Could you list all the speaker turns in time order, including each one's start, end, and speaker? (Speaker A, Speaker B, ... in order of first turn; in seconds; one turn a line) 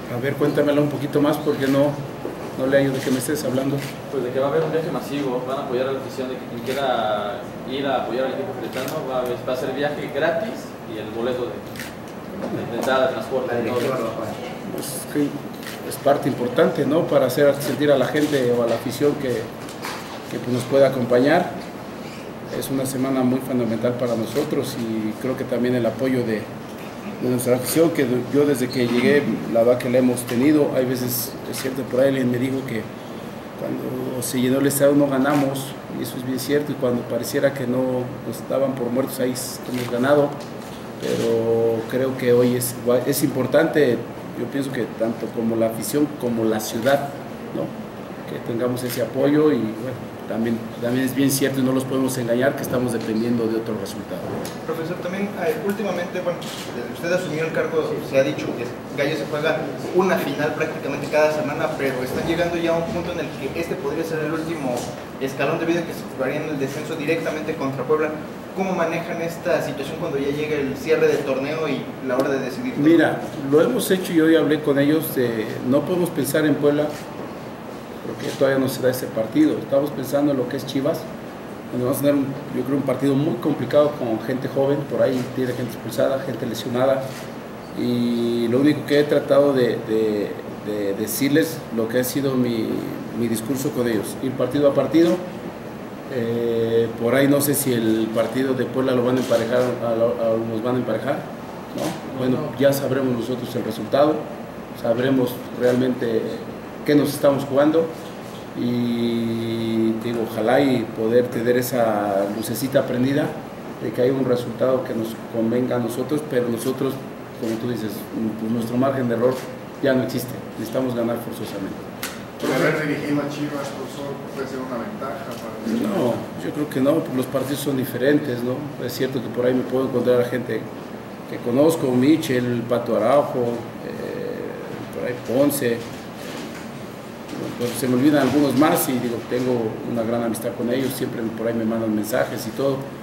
Speaker A: 0.1-2.0
Speaker A: 2.6-3.9
Speaker B: 4.1-11.7
Speaker B: 12.4-14.0
Speaker A: 14.6-19.5
Speaker A: 20.3-21.5
Speaker A: 22.5-26.5
Speaker A: 27.2-32.9
Speaker A: 33.6-40.4
Speaker A: 41.0-47.7
Speaker A: 48.3-54.3
Speaker C: 54.6-73.1
Speaker A: 72.8-76.9
Speaker A: 78.0-81.1
Speaker A: 81.7-87.1
Speaker A: 87.7-95.2
Speaker A: 96.1-104.2
Speaker A: 104.8-107.9
Speaker A: 108.5-121.8
Speaker D: 122.4-126.2
Speaker A: 125.6-130.7
Speaker A: 131.3-136.4
Speaker A: 137.3-142.8